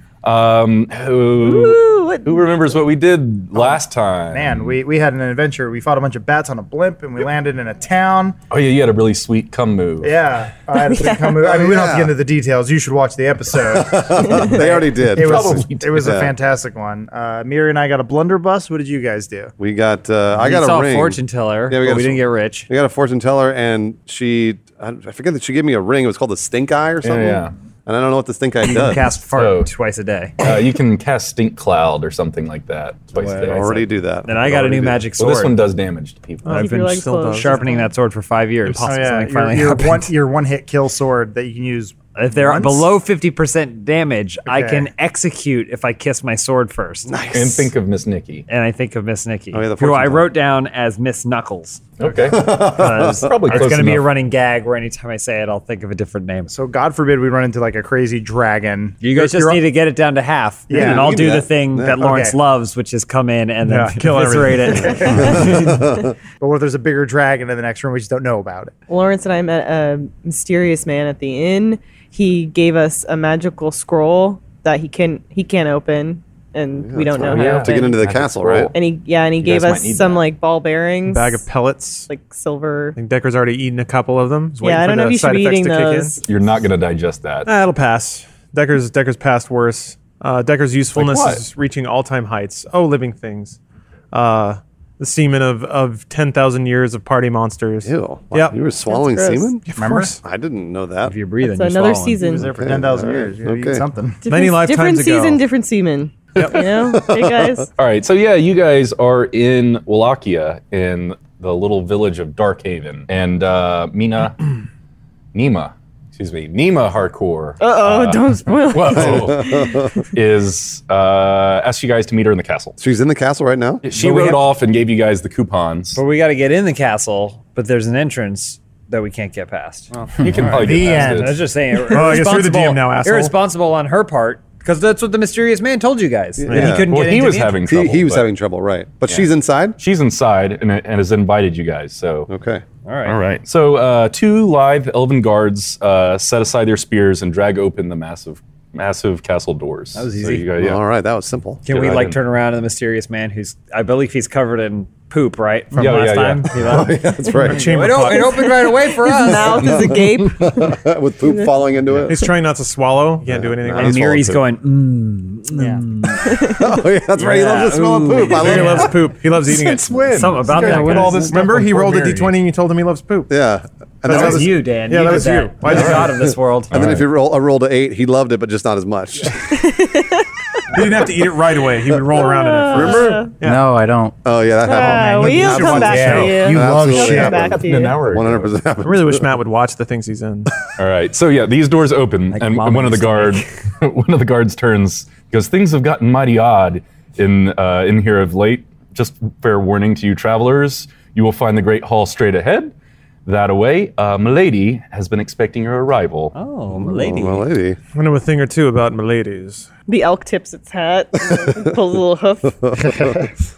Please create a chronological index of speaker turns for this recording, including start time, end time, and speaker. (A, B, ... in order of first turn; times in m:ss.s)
0:00.2-0:04.7 A
0:01.4-0:02.4 B
0:03.5-0:08.4 C
0:08.5-0:10.1 A
0:10.0-0:19.5 C
0:10.8-0:11.3 B
0:11.4-0:12.1 D
0:13.7-0:16.3 D
0:15.2-0:16.1 A
0:19.6-0:29.0 D
0:20.3-0:22.7 E
0:27.0-0:27.5 A
0:28.6-0:30.3 E
0:29.3-0:29.7 A
0:30.4-0:33.8 A
0:33.1-0:35.6 E
0:33.4-0:35.1 D
0:35.2-0:36.7 A
0:36.4-0:37.8 F
0:36.5-0:37.9 B
0:36.6-0:40.1 E
0:38.6-0:39.4 F
0:38.8-0:42.9 C
0:42.2-0:47.2 E
0:44.4-0:44.9 C
0:47.1-0:47.7 D
0:47.3-0:48.4 A
0:48.5-0:56.5 E
0:49.5-0:50.3 D
0:52.0-0:54.1 A
0:52.2-0:53.7 D
0:56.5-0:59.6 C
0:59.0-1:05.6 E
1:00.7-1:02.4 C
1:00.7-1:01.9 D
1:03.6-1:05.1 F
1:04.9-1:05.7 C
1:05.1-1:06.1 D
1:06.4-1:08.7 C
1:08.9-1:18.0 B
1:16.8-1:18.7 D
1:17.2-1:18.8 A
1:18.7-1:21.4 B
1:19.4-1:20.2 A
1:21.1-1:22.1 F
1:22.1-1:23.0 B
1:23.0-1:26.2 F
1:24.6-1:26.2 B
1:26.2-1:27.5 A
1:27.4-1:33.6 F
1:30.9-1:31.4 A
1:34.1-1:38.6 F
1:37.8-1:41.2 D
1:38.8-1:39.5 B
1:39.6-1:40.2 F
1:39.8-1:40.2 C
1:41.0-1:42.2 E
1:41.4-1:42.5 B
1:42.2-1:44.2 C
1:42.5-1:43.8 D
1:44.2-1:47.7 B
1:44.3-1:45.4 F
1:46.5-1:47.6 D
1:47.8-1:54.5 A
1:55.3-2:02.8 A
1:57.6-2:00.0 B
1:58.9-1:59.9 D
2:02.8-2:04.0 D
2:03.8-2:06.0 A
2:05.9-2:17.6 E
2:10.2-2:11.4 A
2:10.5-2:11.4 C
2:11.7-2:13.4 F
2:16.4-2:16.9 D
2:16.5-2:18.3 A
2:17.6-2:19.8 D
2:19.1-2:22.3 A
2:22.3-2:22.6 D
2:22.8-2:23.2 E
2:23.0-2:30.8 A
2:29.9-2:30.5 E
2:30.6-2:31.6 D
2:31.6-2:39.9 E
2:31.7-2:32.2 A
2:35.7-2:36.8 A
2:36.5-2:37.7 D
2:37.4-2:38.5 F
2:38.0-2:41.5 B
2:39.5-2:42.3 D
2:42.1-2:44.0 F
2:43.2-2:44.4 D
2:43.7-2:46.3 E
2:45.5-2:45.8 C
2:46.2-2:46.6 B
2:46.3-2:49.0 D
2:47.1-2:49.0 E
2:48.3-2:53.3 F
2:49.3-2:52.1 A
2:50.1-2:51.3 E
2:50.5-2:52.0 G
2:53.3-2:54.6 D
2:54.1-2:56.3 F
2:54.1-2:56.7 E
2:55.6-2:56.1 A
2:55.7-2:59.4 D
2:56.7-2:57.0 A
2:59.5-3:00.3 B
3:00.7-3:03.6 F
3:02.2-3:03.3 B
3:02.7-3:03.0 D
3:03.4-3:04.2 G
3:04.2-3:09.2 D
3:04.6-3:08.0 B
3:05.1-3:07.6 C
3:06.0-3:06.3 F
3:07.6-3:08.5 A
3:08.8-3:10.5 F
3:10.8-3:22.7 A
3:12.3-3:13.5 E
3:23.2-3:26.3 A
3:26.3-3:27.5 E
3:26.7-3:27.8 D
3:27.9-3:29.7 F
3:29.9-3:32.7 B
3:32.6-3:33.3 D